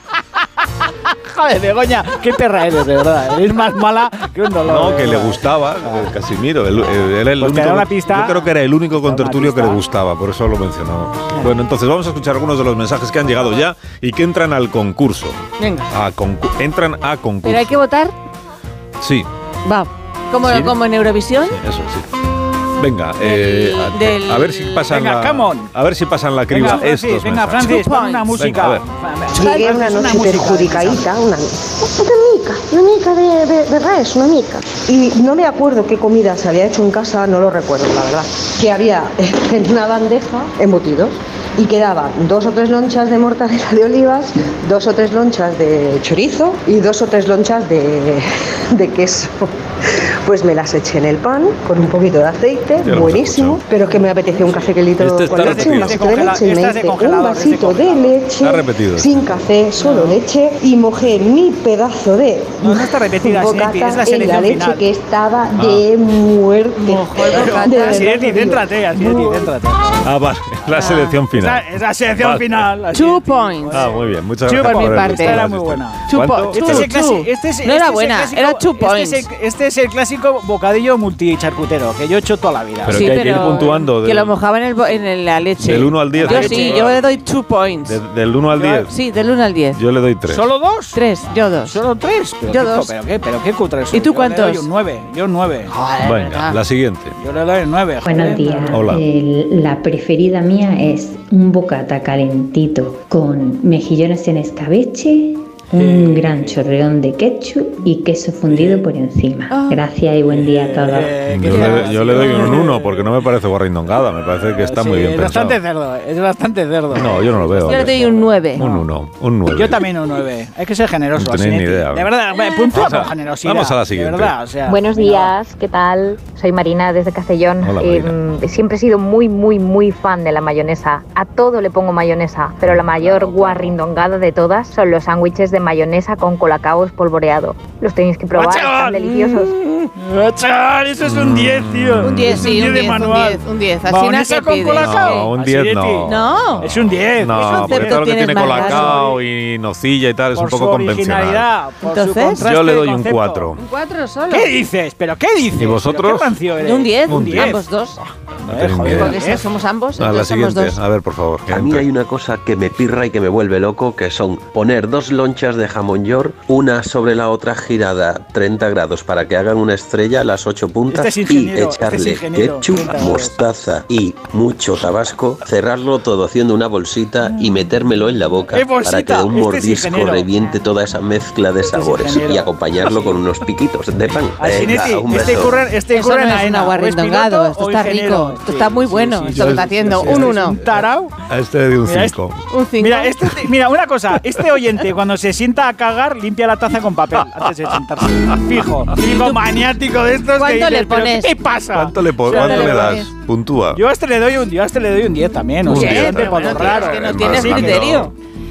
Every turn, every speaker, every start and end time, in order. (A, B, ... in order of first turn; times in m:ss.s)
0:01.1-0:06.1 A
0:04.7-0:15.4 B
0:07.4-0:09.8 A
0:15.6-0:15.9 C
0:15.9-0:17.8 B
0:17.4-0:18.2 C
0:19.0-0:19.3 B
0:19.7-0:21.6 C
0:20.4-0:20.8 B
0:21.5-0:22.1 B
0:22.8-0:27.8 B
0:23.2-0:24.9 C
0:24.9-0:25.7 A
0:26.5-0:31.0 A
0:27.6-0:28.3 C
0:28.4-0:28.8 B
0:29.3-1:09.5 D
0:52.8-0:53.6 B
0:54.3-0:54.7 A
0:55.0-0:56.0 B
0:55.3-0:58.2 A
0:58.4-0:59.4 B
0:59.8-1:00.2 C
1:02.6-1:04.8 A
1:05.6-1:05.8 B
1:06.8-1:08.2 C
1:07.2-1:10.0 A
1:10.0-1:11.7 B
1:10.8-1:11.2 C
1:10.8-1:13.9 A
1:12.2-1:12.7 B
1:12.9-1:13.9 C
1:13.7-1:17.0 B
1:14.5-1:23.2 A
1:14.6-1:15.4 C
1:16.1-1:19.3 C
1:22.8-1:24.4 B
1:22.9-1:28.0 C
1:25.6-1:27.2 B
1:26.1-1:27.0 A
1:27.9-1:29.0 B
1:28.7-1:29.8 C
1:29.7-1:30.4 B
1:30.3-1:35.8 A
1:30.9-1:31.8 C
1:32.5-1:32.9 C
1:33.9-1:34.7 C
1:35.7-1:36.6 C
1:36.0-1:37.1 B
1:37.2-1:38.8 A
1:38.0-1:51.2 E
1:38.1-1:38.8 C
1:38.7-1:39.0 B
1:45.7-1:46.6 A
1:48.5-1:48.8 A
1:49.5-1:49.8 C
1:50.3-1:53.1 A
1:51.3-1:55.6 B
1:51.5-1:52.5 C
1:54.4-1:58.8 A
1:56.9-1:58.0 B
1:57.6-1:58.6 C
1:58.6-1:59.8 B
1:59.5-2:05.3 A
2:01.2-2:02.1 B
2:02.4-2:02.7 C
2:02.7-2:04.3 B
2:04.7-2:19.6 F
2:07.6-2:08.2 B
2:13.0-2:13.7 A
2:18.4-2:19.1 A
2:19.0-2:19.9 C
2:20.0-2:29.2 A
2:21.0-2:22.5 B
2:22.0-2:25.3 C
2:24.8-2:31.5 B
2:26.1-2:26.7 C
2:27.3-2:29.1 C
2:30.4-2:33.5 A
2:31.8-2:32.4 C
2:32.4-2:33.6 B
2:33.6-2:34.5 C
2:34.3-2:39.5 A
2:35.6-2:36.4 B
2:36.6-2:38.0 C
2:37.1-2:37.6 B
2:38.5-2:39.2 B
2:38.8-2:40.8 C
2:40.0-2:41.9 B
2:41.5-3:05.6 G
2:50.9-2:53.4 A
2:58.5-3:00.3 A
3:01.7-3:03.2 A
3:04.4-3:11.1 A
3:05.9-3:10.6 C
3:09.3-3:10.5 B
3:11.3-3:12.4 B
3:11.8-3:12.2 A
3:12.5-3:13.2 C
3:12.8-3:23.0 A
3:19.0-3:19.5 C
3:20.4-3:21.3 C
3:21.7-3:23.8 B
3:22.3-3:23.1 C
3:23.7-3:28.1 A
3:25.7-3:28.1 B
3:25.7-3:28.1 C